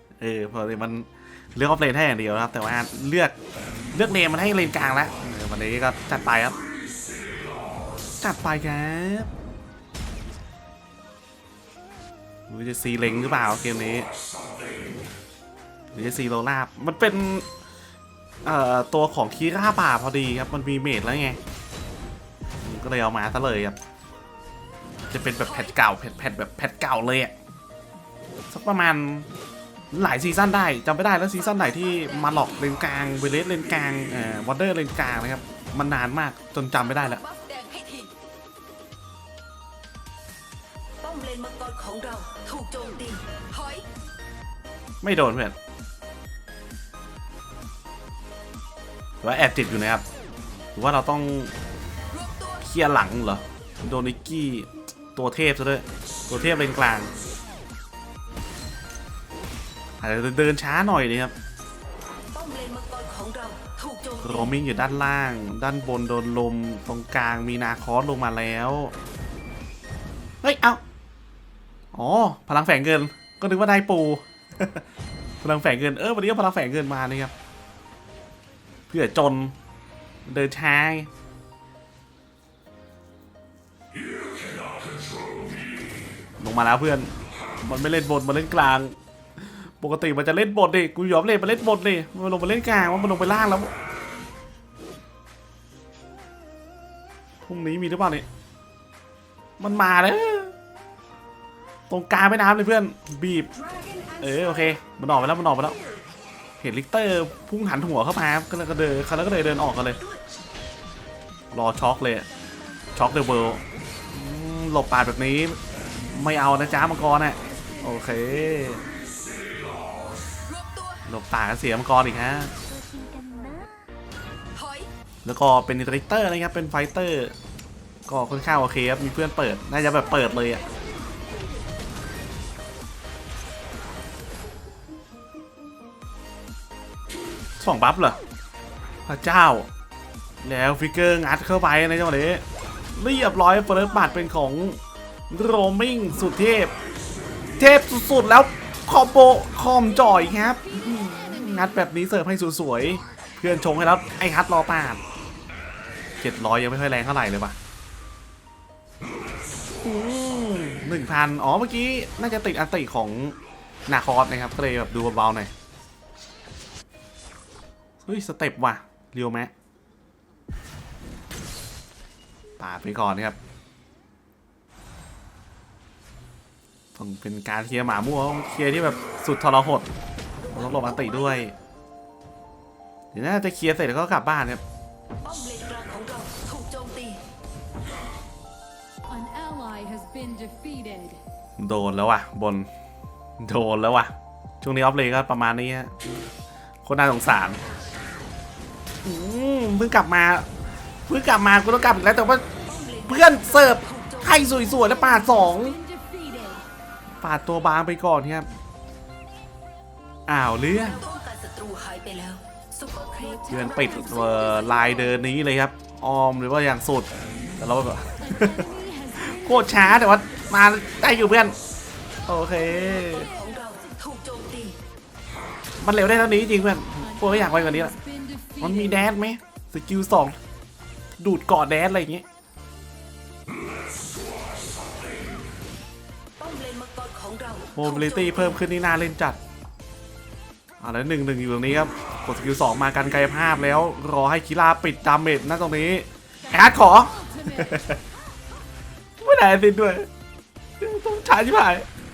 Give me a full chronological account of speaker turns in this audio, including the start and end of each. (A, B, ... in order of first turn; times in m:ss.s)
0:00.2-0:03.3 A
0:03.9-0:06.6 A
0:08.2-0:09.3 A
0:12.5-0:14.1 A
0:15.9-0:17.5 A
0:18.4-0:21.4 A
0:22.6-0:23.8 A
0:25.1-0:27.3 A
0:25.4-0:25.7 B
0:28.5-0:29.3 A
0:29.9-0:37.2 A
0:31.5-0:32.5 B
0:36.9-0:38.1 B
0:41.0-0:43.8 B
0:45.0-0:45.6 A
0:49.2-0:50.0 A
0:50.7-0:51.5 A
0:52.1-0:52.6 B
0:52.6-0:57.1 A
1:00.0-1:01.3 A
1:02.3-1:04.5 B
1:04.2-1:08.9 A
1:10.4-1:10.8 A
1:11.9-1:14.8 A
1:15.4-1:17.3 A
1:18.9-1:19.5 A
1:20.2-1:21.1 A
1:26.4-1:33.7 A
1:37.5-1:38.2 A
1:39.6-1:40.5 A
1:41.9-1:43.5 A
1:44.2-1:45.8 A
1:46.6-1:50.0 A
1:51.5-1:52.3 A
1:52.9-1:55.6 A
1:56.1-1:58.8 A
2:00.4-2:01.0 B
2:01.1-2:02.5 A
2:02.9-2:03.6 C
2:04.5-2:04.9 B
2:05.2-2:07.3 A
2:08.1-2:10.6 A
2:17.6-2:18.2 A
2:19.0-2:19.7 A
2:20.4-2:26.7 A
2:27.6-2:35.0 A
2:36.2-2:37.6 A
2:39.8-2:43.4 A
2:43.9-2:45.5 A
2:48.0-2:49.5 A
2:52.6-2:53.4 A
2:56.9-2:59.9 A
3:00.5-3:01.1 B
3:00.5-3:01.5 A
3:03.1-3:04.6 A
3:05.2-3:07.2 B
3:09.2-3:11.2 C
3:11.6-3:12.7 A
3:13.4-3:16.0 A
3:16.8-3:17.6 A
3:19.0-3:20.4 A
3:21.1-3:22.4 A
3:22.6-3:25.0 B
3:23.1-3:25.8 A
3:27.2-3:28.5 A
3:30.3-3:31.0 A
3:30.7-3:35.1 B
3:33.5-3:41.5 A
3:42.3-3:43.3 A
3:43.0-3:44.8 B
3:45.8-3:48.0 A
3:48.6-3:50.3 A
3:51.2-3:52.2 A
3:56.4-3:58.6 B
3:57.7-3:59.4 A
4:00.8-4:08.0 A
4:09.2-4:10.1 A
4:10.8-4:11.8 A